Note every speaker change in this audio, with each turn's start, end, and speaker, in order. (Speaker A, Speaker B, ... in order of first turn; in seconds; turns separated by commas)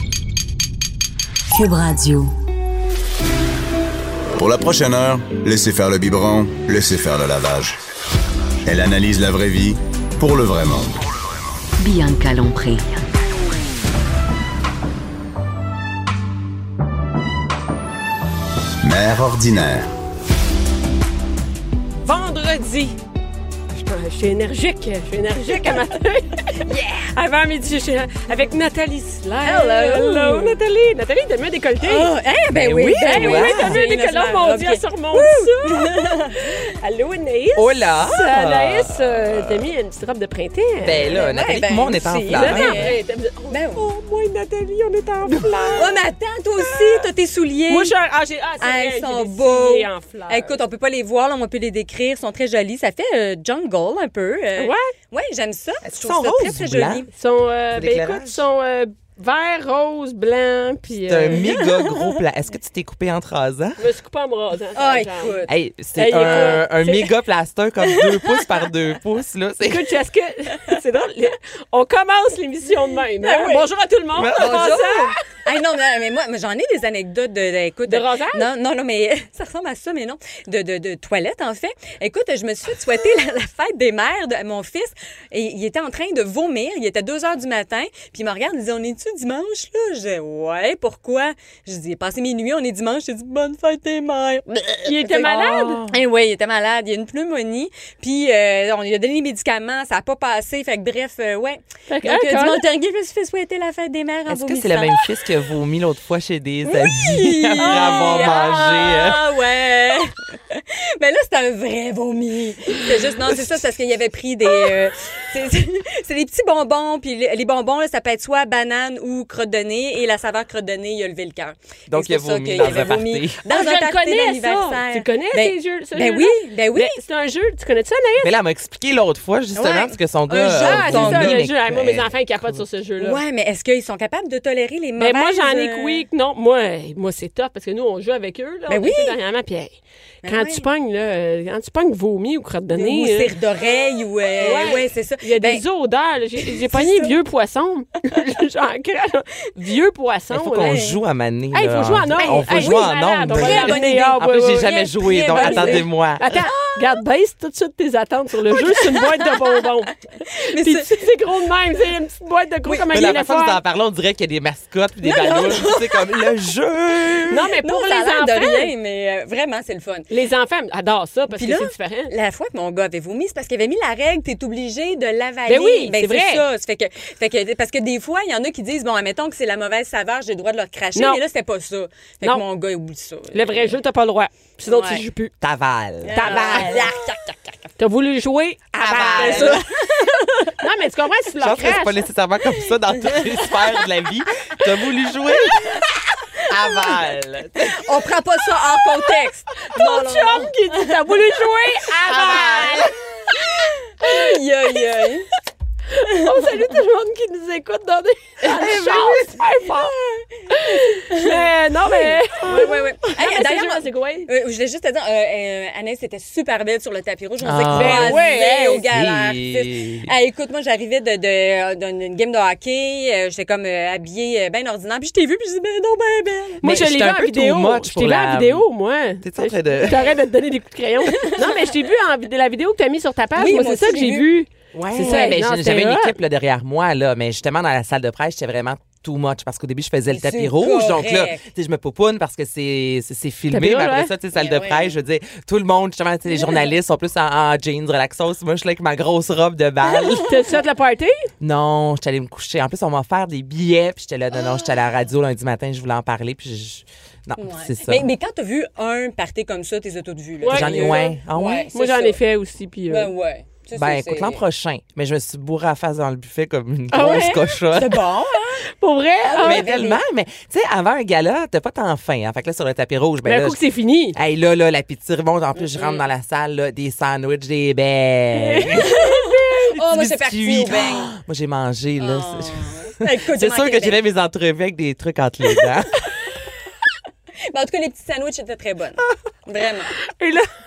Speaker A: 1.5-2.3, Speaker B: 4.3-7.8, Speaker B: 8.7-11.0, Speaker A: 11.8-13.1, Speaker B: 18.8-19.9, Speaker C: 22.0-23.0, Speaker C: 23.7-32.1, Speaker D: 26.6-27.1, Speaker D: 29.4-30.6, Speaker D: 31.8-36.6, Speaker E: 32.5-33.8, Speaker C: 33.0-41.1, Speaker E: 37.5-39.6, Speaker E: 40.8-43.0, Speaker D: 41.1-43.0, Speaker C: 42.3-46.0, Speaker D: 43.5-43.9, Speaker D: 45.7-47.9, Speaker C: 46.6-47.1, Speaker C: 47.7-50.6, Speaker D: 48.6-57.1, Speaker C: 54.6-54.9, Speaker E: 55.9-57.1, Speaker C: 57.1-61.4, Speaker E: 57.7-58.4, Speaker E: 61.1-63.9, Speaker D: 61.3-62.1, Speaker C: 63.8-65.4, Speaker D: 64.8-65.5, Speaker E: 65.5-69.9, Speaker C: 66.0-66.8, Speaker D: 66.3-67.0, Speaker D: 67.9-68.7, Speaker C: 69.7-75.2, Speaker D: 73.2-73.7, Speaker E: 74.1-74.8, Speaker D: 74.3-95.3, Speaker C: 77.9-78.4, Speaker C: 94.8-95.8, Speaker E: 95.0-96.0, Speaker D: 95.9-105.0, Speaker C: 101.9-102.6, Speaker E: 104.3-109.3, Speaker D: 106.7-127.0, Speaker E: 121.9-123.4, Speaker C: 123.5-128.3, Speaker E: 128.2-132.6, Speaker D: 129.6-131.4, Speaker C: 130.6-133.2, Speaker D: 133.0-136.0, Speaker C: 135.0-143.3, Speaker D: 138.7-139.2, Speaker D: 140.2-140.7, Speaker D: 142.8-145.6, Speaker C: 144.4-150.9, Speaker D: 146.4-147.2, Speaker E: 150.3-156.2, Speaker D: 150.7-151.0, Speaker C: 151.5-154.7, Speaker D: 152.2-157.0, Speaker C: 155.3-163.6, Speaker D: 158.5-159.6, Speaker D: 160.3-161.1, Speaker D: 162.7-162.9, Speaker E: 162.9-167.5, Speaker D: 165.0-166.3, Speaker D: 167.1-170.1, Speaker C: 167.3-168.7, Speaker C: 170.1-172.1, Speaker D: 171.3-183.8, Speaker C: 175.5-176.4, Speaker C: 181.0-181.2, Speaker C: 183.3-185.3, Speaker D: 184.7-185.0, Speaker E: 185.4-186.9, Speaker D: 186.0-187.6, Speaker C: 186.1-186.9, Speaker C: 187.8-189.6, Speaker E: 188.7-189.7, Speaker D: 188.8-190.5, Speaker C: 190.5-192.0, Speaker E: 191.4-195.8, Speaker E: 196.4-197.9, Speaker D: 196.5-196.8, Speaker D: 197.6-201.0, Speaker C: 199.7-203.5, Speaker E: 202.0-202.9, Speaker D: 202.4-202.6, Speaker D: 203.3-205.3, Speaker C: 204.0-204.8, Speaker C: 205.9-210.0, Speaker D: 206.0-206.6, Speaker E: 208.5-209.3, Speaker D: 208.5-210.3, Speaker C: 210.5-214.3, Speaker D: 211.1-226.6, Speaker E: 217.4-218.3, Speaker C: 217.7-218.8, Speaker E: 218.9-220.1, Speaker E: 226.6-228.7, Speaker C: 226.6-236.2, Speaker E: 229.2-230.0, Speaker D: 231.1-231.5, Speaker D: 233.4-234.3, Speaker E: 234.7-250.3, Speaker D: 240.1-241.4, Speaker C: 243.5-244.1, Speaker D: 244.3-244.9, Speaker D: 246.3-246.6, Speaker C: 250.2-251.3, Speaker E: 251.4-258.1, Speaker D: 254.4-254.7, Speaker D: 257.4-262.2, Speaker C: 260.4-261.1, Speaker E: 260.5-261.7, Speaker C: 261.7-263.1, Speaker D: 262.9-264.4, Speaker E: 263.8-268.1, Speaker C: 266.9-267.4, Speaker D: 267.7-268.6, Speaker C: 268.8-269.7, Speaker D: 269.2-270.0, Speaker E: 269.4-273.6, Speaker C: 273.2-274.2, Speaker E: 274.1-279.0, Speaker D: 275.6-276.1, Speaker C: 278.3-279.8, Speaker D: 278.9-281.1, Speaker E: 279.8-286.0, Speaker D: 282.0-284.0, Speaker D: 287.5-289.9, Speaker C: 290.1-290.5